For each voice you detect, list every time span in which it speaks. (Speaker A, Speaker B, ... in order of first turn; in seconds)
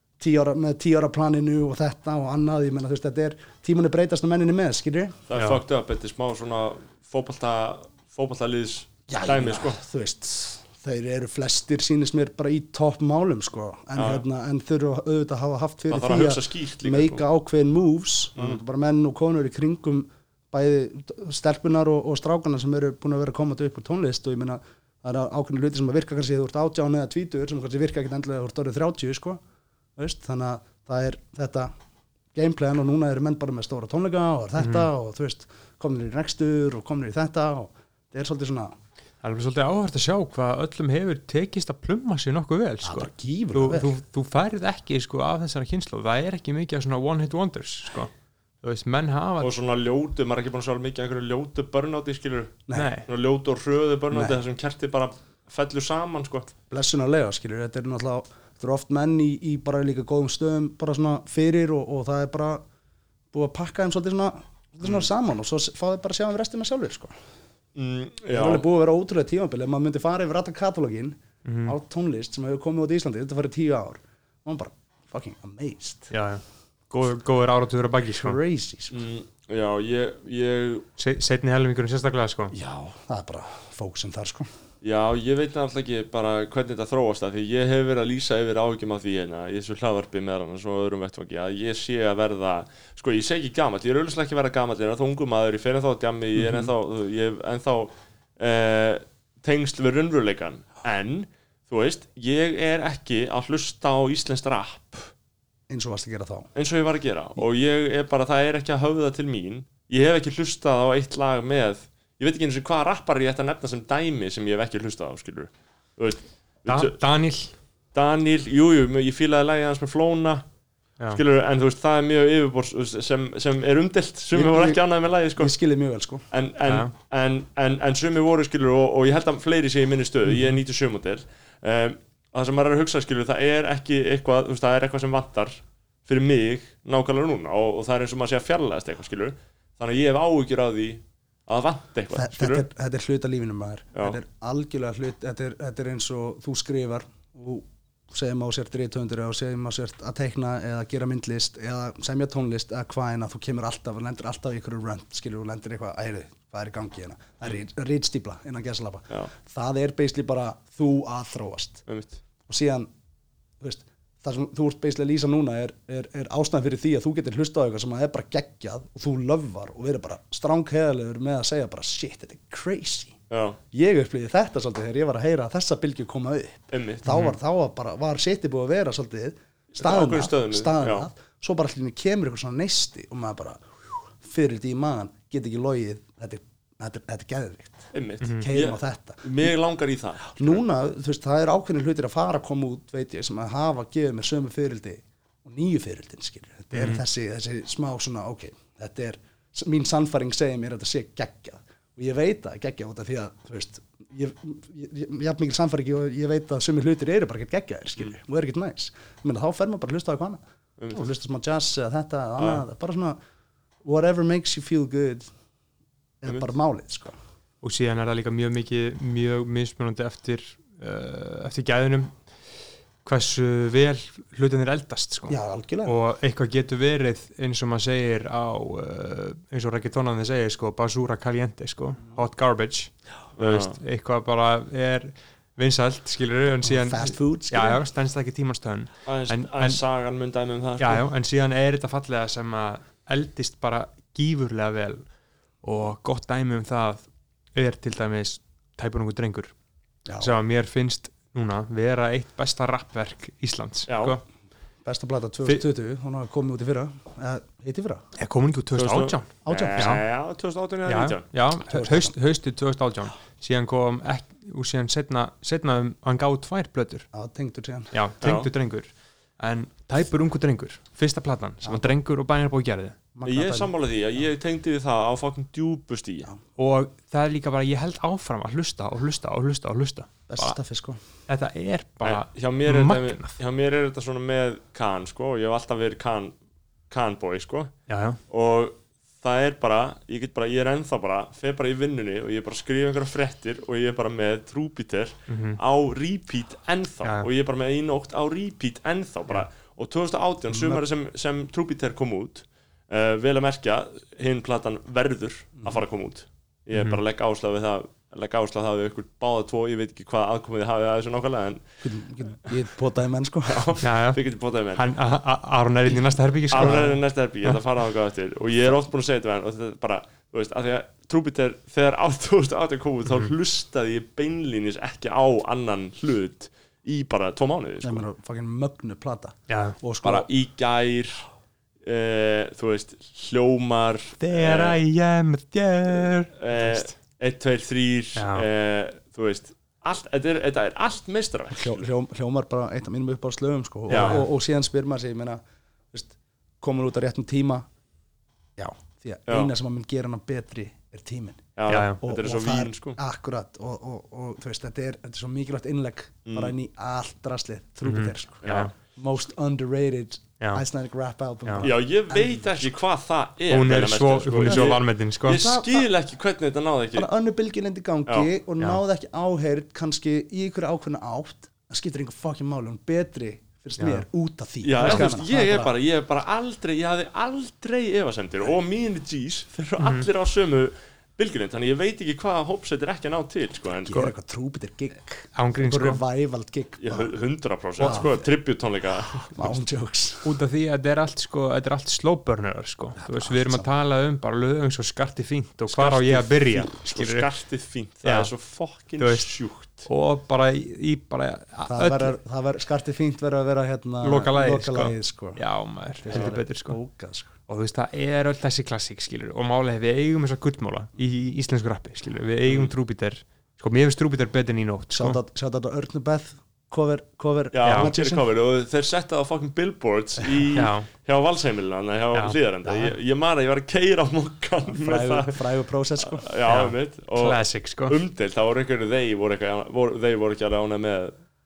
Speaker A: 0.2-5.2, 9.1-29.4, 29.9-31.7, 32.3-38.7, 42.8-43.9, 54.1-54.4, 56.7-62.6, 63.3-67.1, 68.3-76.1, 78.2-79.0, 82.5-84.5, 105.7-106.5, 124.3-124.8, 125.4-126.3, 142.1-161.8, 162.5-162.9, 163.6-173.2, 173.7-189.5, 190.2-213.2, 213.8-215.3, 216.2-217.1, 225.3-225.9, 236.6-237.8, 250.0-250.3, 254.8-258.1, 259.4-259.9, 261.7-262.1, 267.1-267.9, 271.6-271.9, 273.1-273.7, 280.3-281.0, 300.5-300.8, 311.8-313.7, 316.6-316.9, 327.8-330.3, 341.5-345.4, 345.9-347.7, 348.6-362.6, 364.4-365.9, 366.9-375.7, 383.8-387.1, 387.8-388.2, 389.3-390.3, 393.0-393.7, 401.6-405.4, 406.0-407.3, 414.9-418.2, 422.6-422.9, 424.7-426.2
Speaker B: 5.3-9.8, 13.9-14.2, 15.9-17.2, 49.4-56.5, 67.7-68.6, 78.9-80.8, 84.8-105.1, 106.5-117.0, 117.9-120.4, 121.1-125.5, 126.3-142.7, 143.9-144.2, 161.8-162.2, 173.3-173.6, 176.7-177.1, 179.7-181.1, 187.9-190.6, 210.8-211.0, 233.4-233.8, 239.1-241.0, 253.9-254.2, 258.7-261.3, 268.2-268.5, 273.2-276.3, 282.0-286.4, 286.9-287.7, 288.3-311.7, 313.5-314.9, 316.5-328.1, 330.0-331.2, 331.8-334.8, 336.4-341.9, 343.9-344.2, 349.3-349.5, 351.6-353.0, 356.2-356.5, 358.4-358.7, 361.6-367.1, 374.6-384.1, 386.8-389.6, 395.7-399.9, 406.1-406.4, 412.5-412.7, 417.5-425.4, 426.0-431.1
Speaker C: 5.4-5.6, 34.6-34.9, 39.2-49.5, 52.7-53.1, 71.4-71.8, 76.1-78.4, 81.0-82.5, 116.7-117.5, 126.7-126.9, 177.1-177.4, 188.2-188.5, 196.7-197.0, 217.6-222.2, 223.0-239.8, 240.8-245.1, 245.6-249.5, 250.2-254.2, 258.2-260.0, 260.9-267.1, 267.9-273.0, 276.6-280.6, 281.3-283.4, 287.9-288.2, 295.3-295.6, 313.8-314.2, 314.7-317.6, 329.5-329.8, 334.2-336.9, 338.1-338.4, 343.9-344.2, 351.7-352.0, 357.8-358.7, 363.5-365.4, 373.8-374.0, 374.8-375.1, 379.8-380.1, 385.3-386.0, 390.2-397.3, 398.0-398.3, 399.0-399.3, 399.8-402.1, 404.0-406.8, 407.4-415.2, 417.6-417.9, 420.6-420.9, 426.5-428.0